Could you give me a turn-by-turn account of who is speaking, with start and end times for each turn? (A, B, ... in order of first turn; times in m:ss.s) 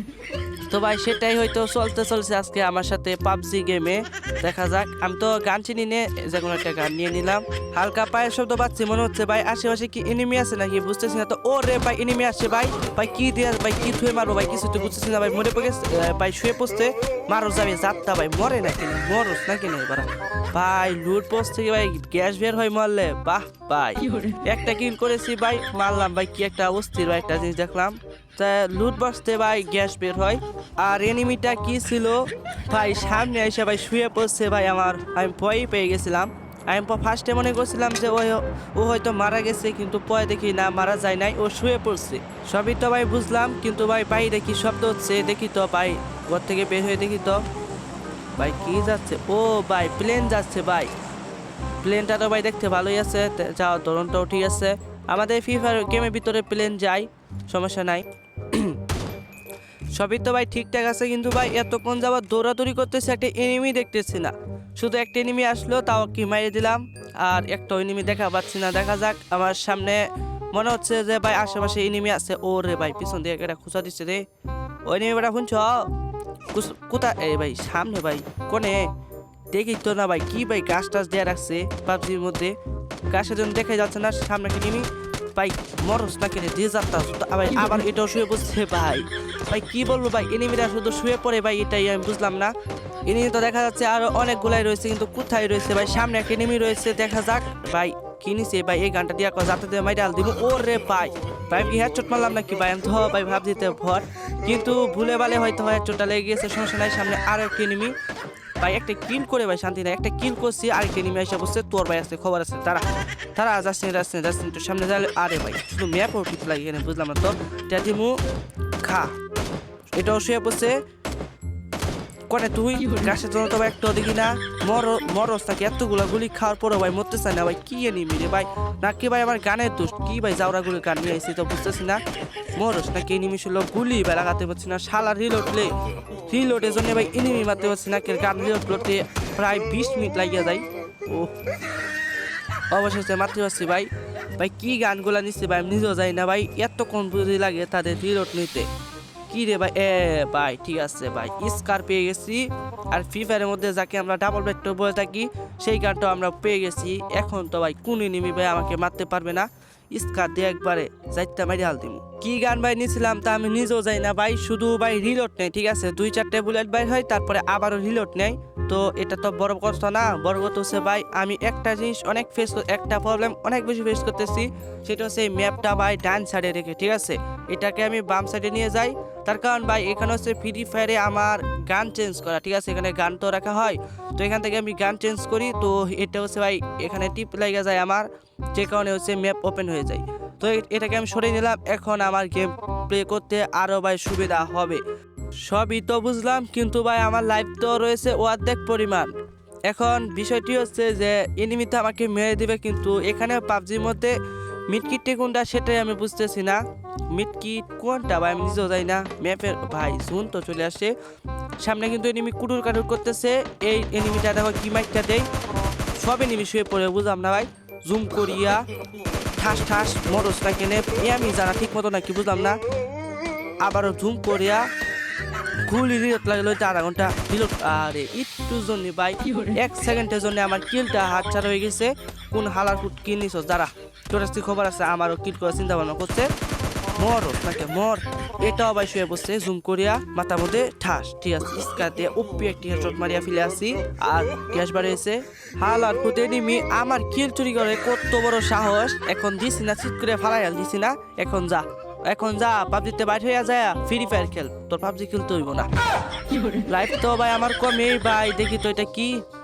0:00.7-0:47.4 A
0:48.4-0:50.9 A
0:51.8-0:58.8 A
1:00.0-1:14.2 A
1:14.9-1:15.9 A
1:16.5-1:18.9 A
1:19.5-1:22.6 A
1:23.1-1:32.5 A
1:33.1-1:47.9 A
1:48.6-1:58.2 A
1:58.8-1:59.2 A
1:59.9-2:00.8 A
2:02.3-2:12.0 A
2:12.6-2:21.3 A
2:22.7-2:28.7 A
2:29.3-3:14.8 A
3:15.5-3:19.1 A
3:19.7-3:24.2 A
3:24.7-3:30.9 A
3:31.6-3:35.3 A
3:36.0-3:38.6 A
3:39.4-3:42.6 A
3:43.6-3:44.7 A
3:45.6-3:56.3 A
3:57.0-4:15.7 A
4:16.7-4:19.2 A